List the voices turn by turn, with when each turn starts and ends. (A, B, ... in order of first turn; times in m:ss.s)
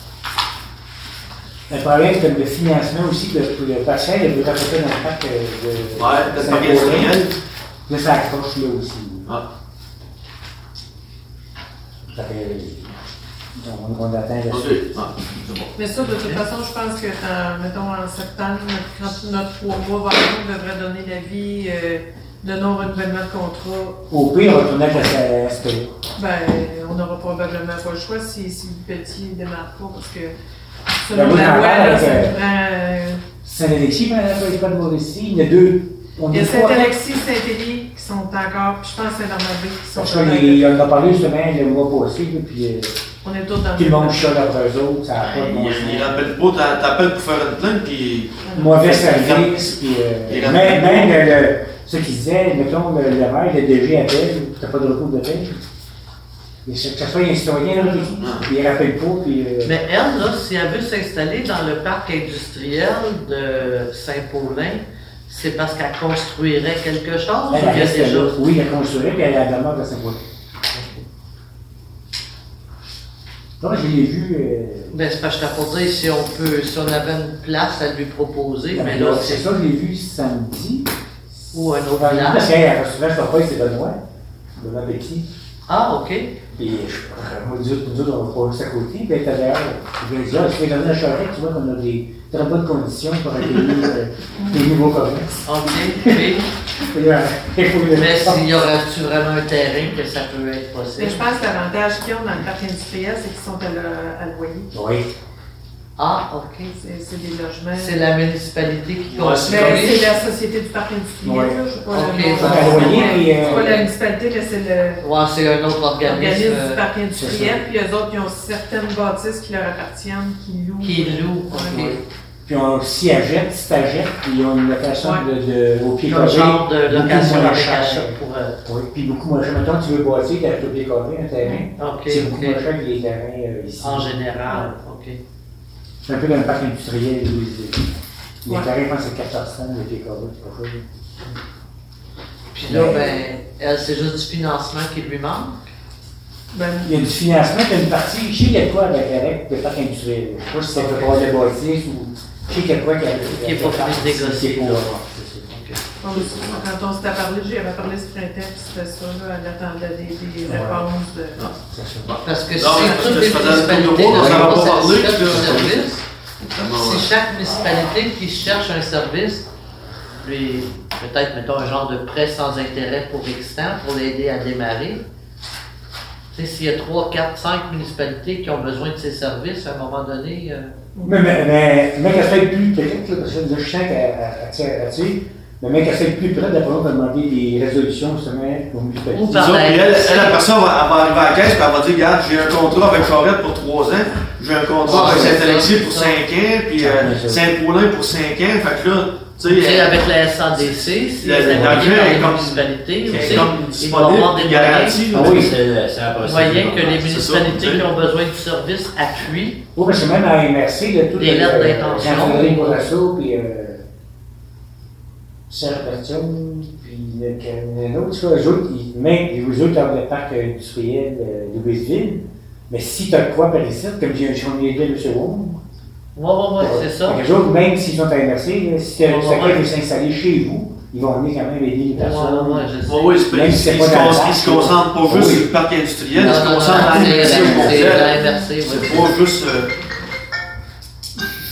0:01.7-0:07.2 A
0:06.0-0:07.4 B
0:07.9-0:09.3 A
0:12.1-0:12.9 A
0:13.6-0:14.8 A
0:14.5-0:15.7 B
0:15.8-0:24.0 C
0:24.1-0:26.0 A
0:26.2-0:30.3 C
0:31.0-0:33.2 C
0:31.1-0:32.4 A
0:33.4-0:36.9 A
0:36.3-0:40.8 C
0:39.9-0:43.0 A
0:43.2-0:44.4 C
0:43.8-0:46.2 A
0:45.2-0:49.7 B
0:48.4-0:48.7 C
0:48.6-0:55.6 A
0:50.3-0:51.2 B
0:56.7-0:59.7 A
0:58.2-0:58.4 B
0:59.6-1:08.4 D
1:07.5-1:10.2 A
1:10.7-1:11.0 D
1:13.6-1:15.0 A
1:14.9-1:19.4 D
1:18.7-1:20.9 A
1:21.5-1:24.0 A
1:21.5-1:22.5 D
1:24.6-1:25.3 A
1:25.7-1:26.4 D
1:26.6-1:38.4 A
1:34.4-1:34.6 C
1:35.4-1:36.5 D
1:38.0-1:41.3 D
1:41.0-1:44.7 C
1:44.7-1:45.1 A
1:46.0-1:46.7 D
1:46.7-1:48.0 C
1:47.7-1:50.1 D
1:49.1-1:50.0 B
1:49.5-1:55.0 C
1:51.2-1:51.6 A
1:51.9-1:53.9 D
1:52.4-1:53.8 A
1:55.0-1:56.8 D
1:56.0-2:02.0 C
1:57.1-1:57.6 A
2:00.8-2:02.0 D
2:02.5-2:14.1 A
2:05.0-2:05.2 C
2:06.0-2:08.6 D
2:11.8-2:12.6 D
2:13.8-2:15.2 D
2:16.0-2:17.9 A
2:18.4-2:20.9 A
2:22.5-2:25.6 D
2:22.6-2:23.0 A
2:22.7-2:23.2 C
2:26.5-2:26.9 C
2:26.8-2:35.5 A
2:33.2-2:35.0 D
2:35.5-2:35.8 D
2:36.0-2:41.5 C
2:40.5-2:40.8 A
2:41.7-2:42.1 A
2:42.0-2:46.0 B
2:42.2-2:46.0 D
2:44.0-2:44.7 A
2:45.3-2:45.7 A
2:46.5-2:47.1 B
2:46.7-2:49.5 D
2:50.2-2:55.0 D
2:56.3-3:00.7 D
3:01.0-3:01.2 C
3:01.0-3:09.5 A
3:09.1-3:10.4 D
3:09.3-3:20.0 B
3:14.9-3:16.2 D
3:14.9-3:15.4 A
3:16.8-3:17.5 A
3:19.4-3:25.1 D
3:21.2-3:25.5 B
3:21.4-3:21.9 A
3:23.1-3:23.4 E
3:25.1-3:25.5 A
3:25.1-3:27.0 E
3:26.2-3:29.6 D
3:26.9-3:27.9 B
3:29.8-3:33.8 A
3:31.2-3:32.9 D
3:35.5-3:45.6 A
3:46.1-3:47.2 D
3:46.6-3:55.5 A
3:49.0-3:49.7 D
3:52.0-3:53.2 D
3:52.9-3:59.7 B
3:56.1-3:58.1 A
3:56.1-3:59.1 D